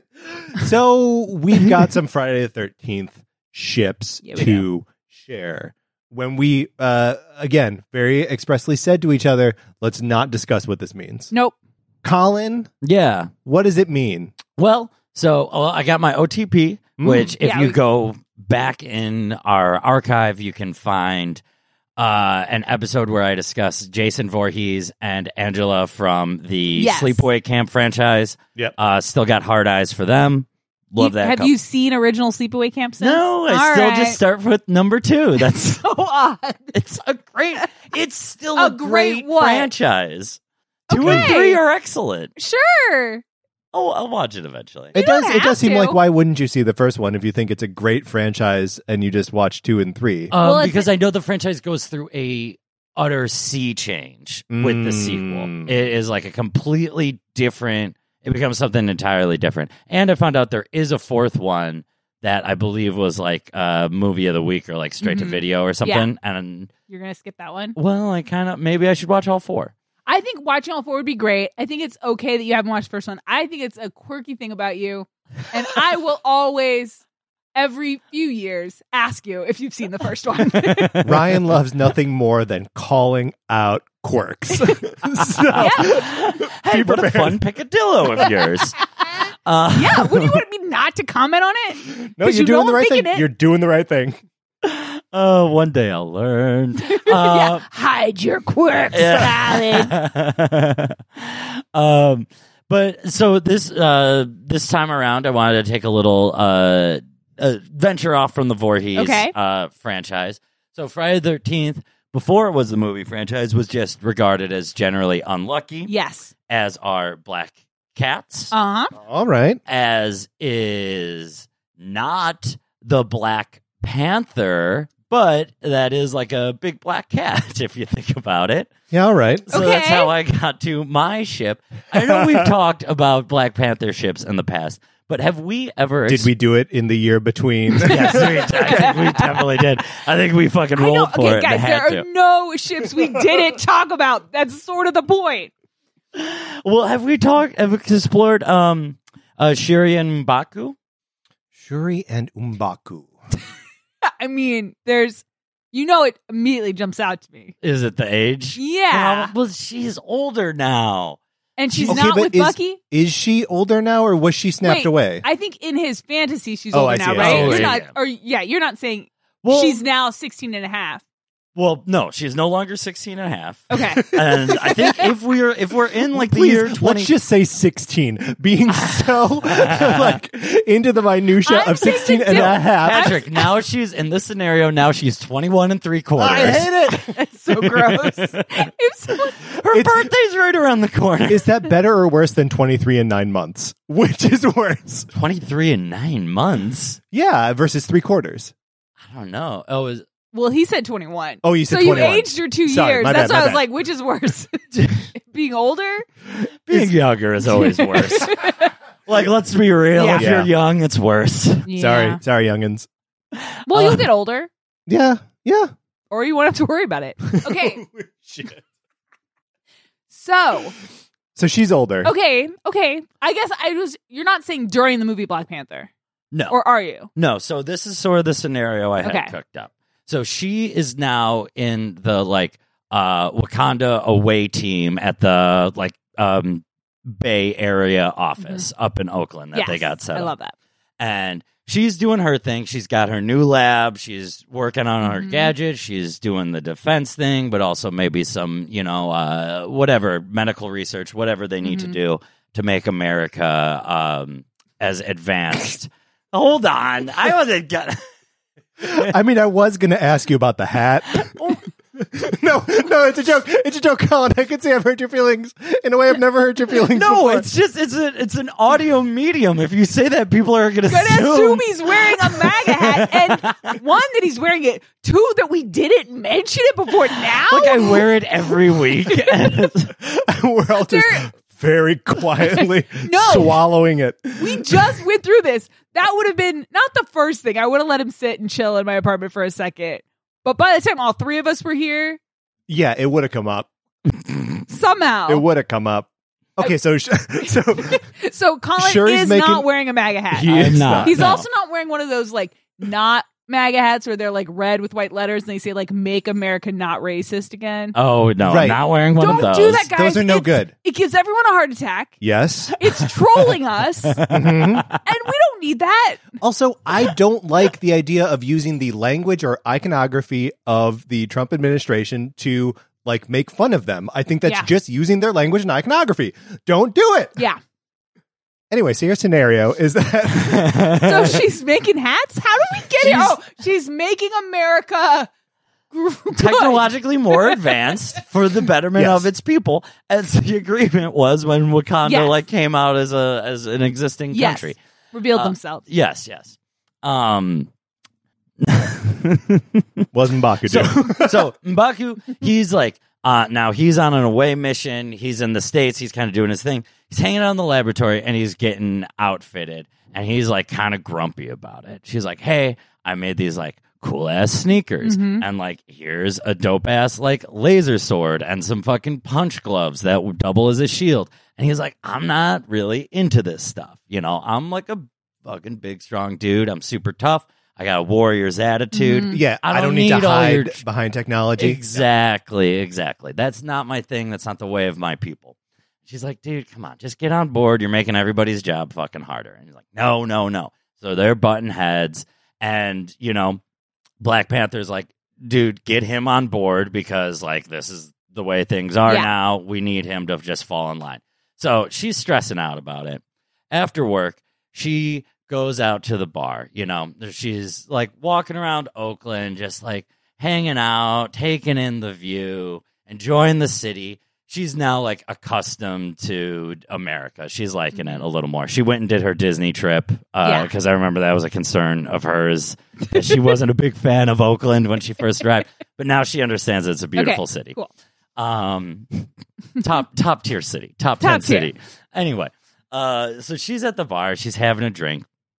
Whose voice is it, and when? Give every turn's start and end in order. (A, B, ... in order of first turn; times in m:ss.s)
0:00.4-0:11.3 A
0:04.2-0:04.7 B
0:12.0-0:12.7 A
0:12.8-0:13.3 C
0:13.4-0:14.4 A
0:14.6-0:21.4 C
0:17.0-0:17.3 A
0:17.4-0:17.8 B
0:22.0-0:31.5 C
0:26.8-0:27.3 B
0:31.0-0:34.2 B
0:33.0-0:35.8 C
0:35.5-0:36.8 B
0:36.7-0:40.4 C
0:38.6-0:39.7 B
0:40.9-0:41.6 B
0:40.9-0:42.3 C
0:41.0-0:41.3 A
0:42.4-0:43.2 B
0:43.7-0:45.0 C
0:44.9-0:50.3 A
0:45.0-0:46.0 B
0:50.3-1:06.7 C
0:50.4-0:50.9 B
0:54.5-0:55.7 A
1:05.0-1:06.1 B
1:06.9-1:07.8 B
1:07.8-1:09.7 C
1:10.1-1:17.0 B
1:17.6-1:21.0 B
1:20.6-1:21.2 C
1:21.0-1:27.4 A
1:25.4-1:28.8 C
1:25.6-1:26.0 B
1:29.5-1:30.4 C
1:29.7-1:33.3 B
1:31.8-1:34.2 A
1:34.6-1:37.6 C
1:36.9-1:39.9 B
1:38.9-1:55.9 C
1:49.0-1:49.3 B
1:55.9-1:56.3 B
1:56.5-1:58.5 C
1:58.5-1:58.9 B
1:59.0-1:59.6 A
1:59.7-2:08.7 C
2:08.9-2:09.5 A
2:09.5-2:16.3 C
2:09.5-2:10.1 B
2:16.1-2:18.9 A
2:17.8-2:19.3 B
2:17.8-2:22.1 C
2:20.8-2:25.5 B
2:26.1-2:30.8 C
2:31.6-2:33.1 A
2:34.2-2:37.5 B
2:37.6-2:41.2 C
2:38.6-2:39.3 B
2:41.6-2:42.8 B
2:41.7-2:42.0 C
2:41.8-2:45.2 A
2:44.6-2:51.0 B
2:46.7-2:47.8 A
2:47.2-2:48.0 C
2:49.4-2:49.8 C
2:51.6-2:57.1 C
2:53.7-2:55.1 B
2:56.1-3:03.2 A
2:58.8-3:00.2 C
3:01.4-3:03.5 B
3:02.4-3:08.7 C
3:06.2-3:07.2 A
3:07.1-3:09.4 B
3:09.4-3:11.6 C
3:09.7-3:10.1 A
3:11.3-3:15.1 A
3:15.1-3:17.0 C
3:17.1-3:18.5 A
3:19.1-3:20.0 C
3:20.3-3:24.6 B
3:21.4-3:23.6 A
3:24.7-3:25.0 C
3:25.1-3:26.1 B
3:26.7-3:28.5 C
3:27.4-3:28.7 B
3:29.1-3:31.7 C
3:30.0-3:30.3 B
3:30.1-3:30.5 A
3:31.7-3:32.2 B
3:31.8-3:32.9 A
3:33.7-3:34.5 B
3:33.7-3:34.1 C
3:34.9-3:35.7 A
3:36.1-3:37.8 B
3:37.4-3:38.6 A
3:40.1-3:40.8 B
3:41.4-3:42.1 A
3:42.0-3:45.9 B
3:46.3-3:46.6 C
3:46.5-3:47.1 B
3:47.1-4:00.3 C
3:49.0-3:49.3 B
3:58.4-3:58.7 B
3:59.5-4:00.5 B
4:01.0-4:18.0 C
4:05.0-4:05.5 B
4:11.6-4:12.0 B
4:18.8-4:21.4 A
4:22.0-4:27.5 A
4:26.8-4:33.7 C
4:30.9-4:38.0 B
4:37.3-4:39.9 C
4:39.1-4:39.7 B
4:40.0-4:44.9 A
4:40.8-4:41.3 B
4:42.4-4:43.6 B
4:44.4-4:52.2 B
4:52.7-4:53.7 A
4:54.7-4:55.4 B
4:55.3-4:58.0 A
4:57.4-5:08.0 B
4:58.8-4:59.7 A
5:00.3-5:01.4 A
5:00.5-5:01.4 C
5:08.0-5:09.8 C
5:08.4-5:10.7 A
5:09.2-5:12.2 B
5:12.2-5:12.8 A
5:12.8-5:14.2 B
5:14.2-5:15.0 C
5:14.3-5:14.9 A
5:15.0-5:16.3 B
5:16.4-5:27.4 A
5:28.7-5:31.0 A
5:30.4-5:31.1 C
5:31.0-5:35.3 B
5:33.0-5:33.3 A
5:35.9-5:37.6 B
5:36.4-5:44.8 C
5:39.0-5:39.3 A
5:42.1-5:42.3 B
5:44.3-5:45.8 B
5:45.3-5:47.7 C
5:48.6-5:50.0 C
5:50.1-5:51.5 A
5:50.6-6:20.8 C
6:05.0-6:05.4 B
6:18.9-6:19.4 B
6:19.3-6:22.1 A
6:21.6-6:25.6 C
6:26.1-6:33.6 C
6:34.2-7:07.8 C
6:57.9-6:58.2 B
7:00.4-7:00.7 B
7:03.1-7:03.6 B
7:07.2-7:07.9 B
7:08.4-7:09.3 C
7:09.8-7:15.3 C
7:11.2-7:11.7 B